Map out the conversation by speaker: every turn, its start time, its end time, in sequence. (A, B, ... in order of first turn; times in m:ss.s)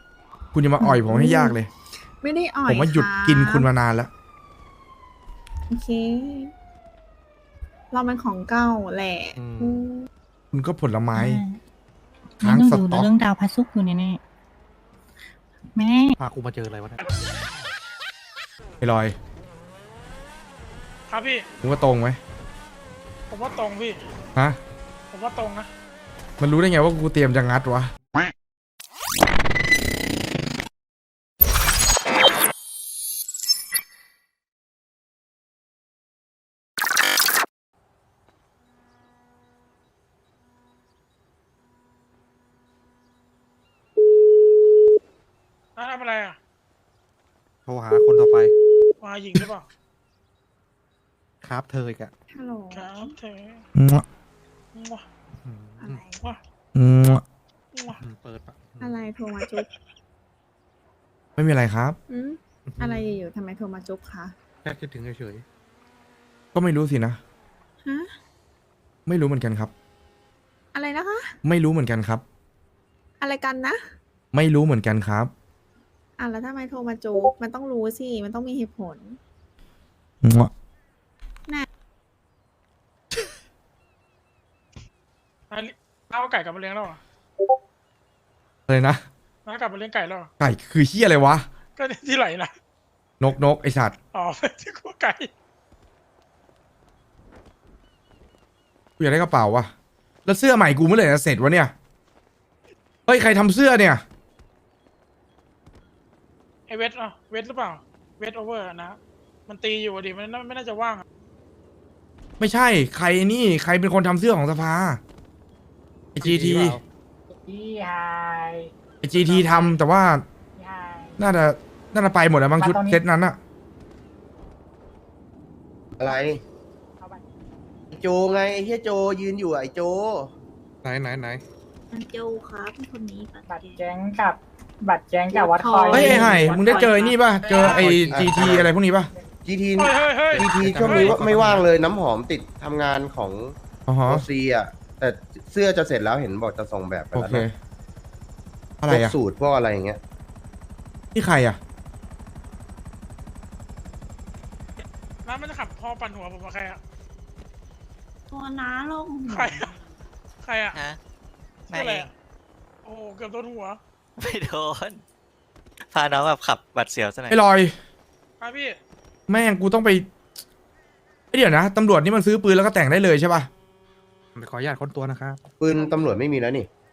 0:00.5-0:01.7 A
0:00.8-0:03.7 B
0:02.6-0:04.1 A
0:05.7-0:06.5 B
0:07.9-0:10.1 B
0:09.4-0:09.8 C
0:10.5-0:11.4 A
0:11.1-0:11.6 D
0:12.4-0:14.2 D
0:12.4-0:13.1 A
0:15.7-0:16.2 D
0:16.2-0:17.0 C
0:18.8-0:19.2 A
0:21.1-0:21.4 E
0:21.6-0:22.2 A
0:23.3-0:24.0 E
0:25.1-0:25.7 E
0:26.4-0:27.9 A
0:45.8-0:46.4 E
0:47.6-0:48.5 C
0:49.0-0:49.7 E
0:51.4-0:52.1 C
0:52.3-0:53.1 B
0:52.7-0:53.6 E
0:53.7-0:54.0 A
0:54.7-0:55.0 E
0:55.4-0:56.0 C
0:55.8-0:56.2 B
0:56.7-0:57.2 A
0:57.7-0:58.0 E
0:57.9-0:59.0 C
0:58.8-0:59.6 B
1:01.4-1:02.0 A
1:02.1-1:04.3 B
1:02.6-1:03.1 C
1:04.6-1:05.4 C
1:06.5-1:07.2 A
1:07.8-1:08.1 B
1:09.0-1:09.7 A
1:10.7-1:11.3 B
1:11.4-1:12.2 A
1:13.2-1:13.8 B
1:14.3-1:15.3 A
1:16.2-1:19.2 B
1:20.2-1:20.5 A
1:25.5-1:27.0 E
1:28.7-1:29.0 A
1:29.4-1:30.3 E
1:30.4-1:31.5 A
1:31.8-1:32.5 E
1:33.2-1:34.0 A
1:34.1-1:35.3 E
1:39.0-1:39.7 A
1:40.2-1:41.7 A
1:43.1-1:44.0 A
1:46.7-1:49.0 E
1:49.5-1:51.0 E
1:52.4-1:55.0 A
1:56.2-1:56.8 A
1:56.2-1:56.8 C
1:57.3-1:58.7 F
1:59.0-2:00.2 A
1:59.2-1:59.6 E
2:00.6-2:01.2 F
2:01.2-2:03.4 A
2:02.6-2:03.0 F
2:06.0-2:06.4 G
2:07.9-2:10.3 G
2:10.8-2:11.4 C
2:11.9-2:13.8 H
2:13.5-2:16.8 F
2:15.3-2:17.8 H
2:15.9-2:19.1 A
2:17.6-2:18.7 C
2:18.0-2:18.7 G
2:19.4-2:27.5 G
2:19.8-2:21.2 E
2:20.6-2:21.7 C
2:20.9-2:21.6 A
2:23.9-2:24.2 A
2:27.1-2:27.5 A
2:28.8-2:29.2 A
2:28.9-2:30.0 G
2:31.1-2:31.6 A
2:35.2-2:36.8 E
2:38.3-2:39.7 H
2:39.3-2:39.7 E
2:40.4-2:40.8 E
2:40.7-2:41.0 I
2:41.7-2:42.1 I
2:41.7-2:42.1 E
2:42.8-2:43.8 E
2:44.2-2:45.0 I
2:45.8-2:47.4 I
2:47.3-2:47.7 A
2:48.4-2:48.8 E
2:49.3-2:50.1 A
2:51.3-2:53.5 A
2:54.4-2:55.4 C
2:55.6-2:56.7 G